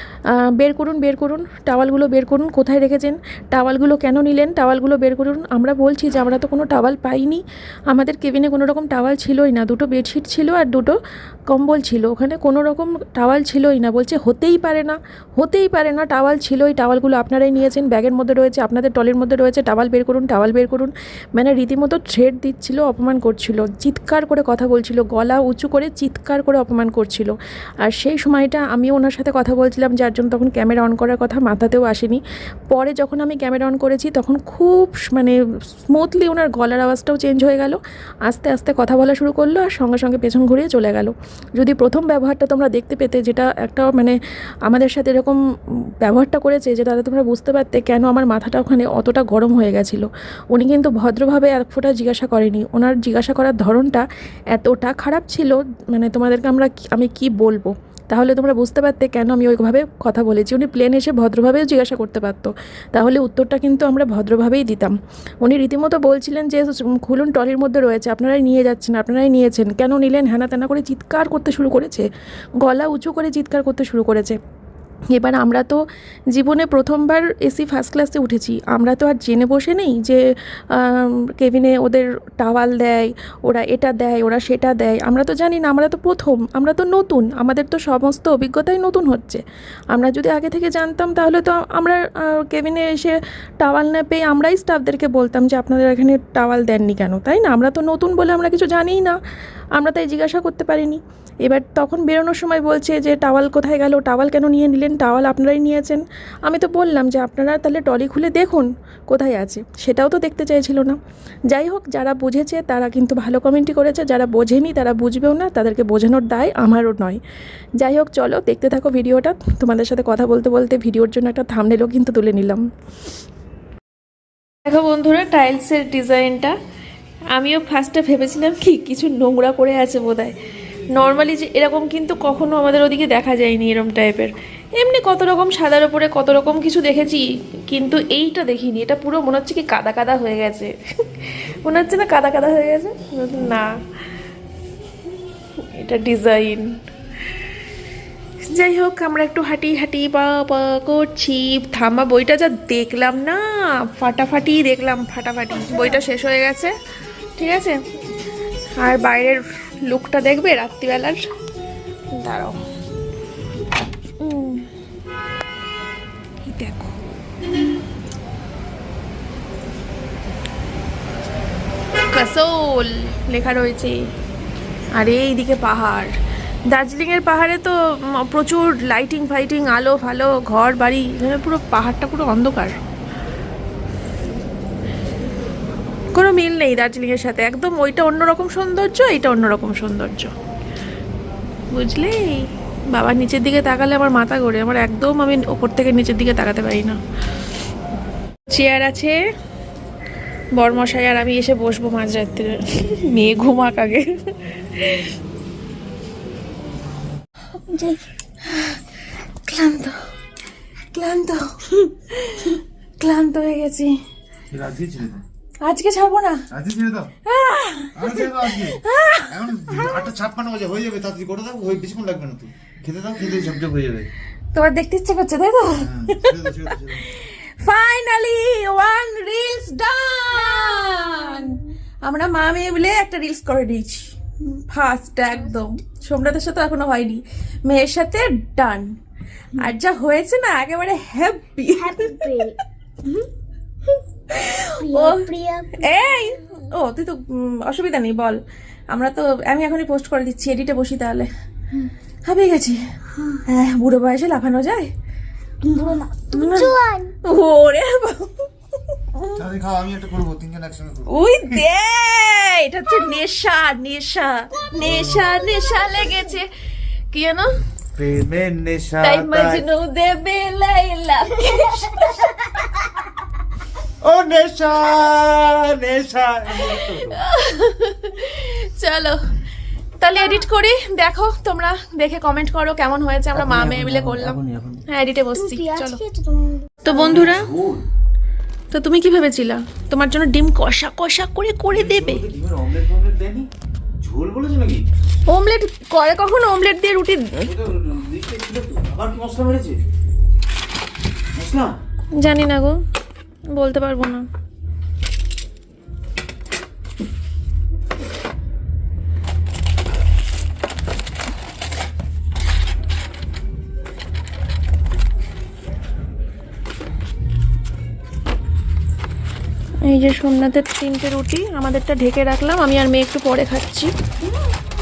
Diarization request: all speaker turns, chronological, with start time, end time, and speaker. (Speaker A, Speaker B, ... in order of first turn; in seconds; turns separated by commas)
Speaker A: 0.6-10.9, Speaker A: 11.5-35.4, Speaker A: 35.9-45.4, Speaker A: 46.0-72.1, Speaker A: 72.6-74.4, Speaker A: 75.1-75.8, Speaker A: 76.3-99.2, Speaker A: 99.8-111.0, Speaker A: 111.5-117.2, Speaker A: 117.8-122.6, Speaker A: 124.6-126.5, Speaker A: 127.3-130.3, Speaker A: 130.9-143.7, Speaker A: 145.6-146.7, Speaker A: 148.4-156.7, Speaker B: 155.7-156.0, Speaker A: 157.4-157.8, Speaker A: 158.8-161.2, Speaker A: 162.1-162.6, Speaker A: 164.2-164.7, Speaker A: 166.4-167.2, Speaker A: 172.1-174.1, Speaker A: 174.9-176.1, Speaker A: 176.7-182.8, Speaker A: 186.1-190.3, Speaker A: 191.7-197.0, Speaker A: 198.5-199.2, Speaker A: 200.6-205.1, Speaker A: 208.4-208.8, Speaker A: 209.4-210.0, Speaker A: 210.9-213.9, Speaker C: 214.5-215.2, Speaker A: 215.6-216.4, Speaker C: 216.5-217.1, Speaker A: 217.2-219.9, Speaker C: 217.9-224.1, Speaker A: 224.5-238.9, Speaker C: 225.8-227.1, Speaker B: 230.4-231.6, Speaker A: 239.5-242.5, Speaker B: 241.8-242.6, Speaker A: 244.3-248.4, Speaker B: 244.3-246.6, Speaker A: 248.9-251.3, Speaker A: 252.2-252.8, Speaker B: 253.1-253.4, Speaker A: 253.4-254.9, Speaker A: 255.6-256.7, Speaker B: 255.7-257.1, Speaker A: 257.2-259.4, Speaker C: 259.3-261.6, Speaker A: 261.1-266.5, Speaker C: 264.8-265.2, Speaker B: 264.8-266.3, Speaker A: 267.1-267.6, Speaker C: 267.9-269.6, Speaker A: 269.0-272.3, Speaker B: 271.4-272.7, Speaker C: 274.0-277.2, Speaker A: 276.6-279.3, Speaker A: 280.0-286.0, Speaker C: 283.3-284.8, Speaker B: 285.3-287.2, Speaker A: 286.8-287.5, Speaker C: 286.9-287.8, Speaker A: 288.7-292.2, Speaker C: 291.7-293.5, Speaker C: 294.0-294.8, Speaker A: 295.3-297.5, Speaker C: 297.4-299.8, Speaker C: 301.3-301.7, Speaker A: 302.2-302.8, Speaker A: 303.5-304.2, Speaker A: 319.8-323.9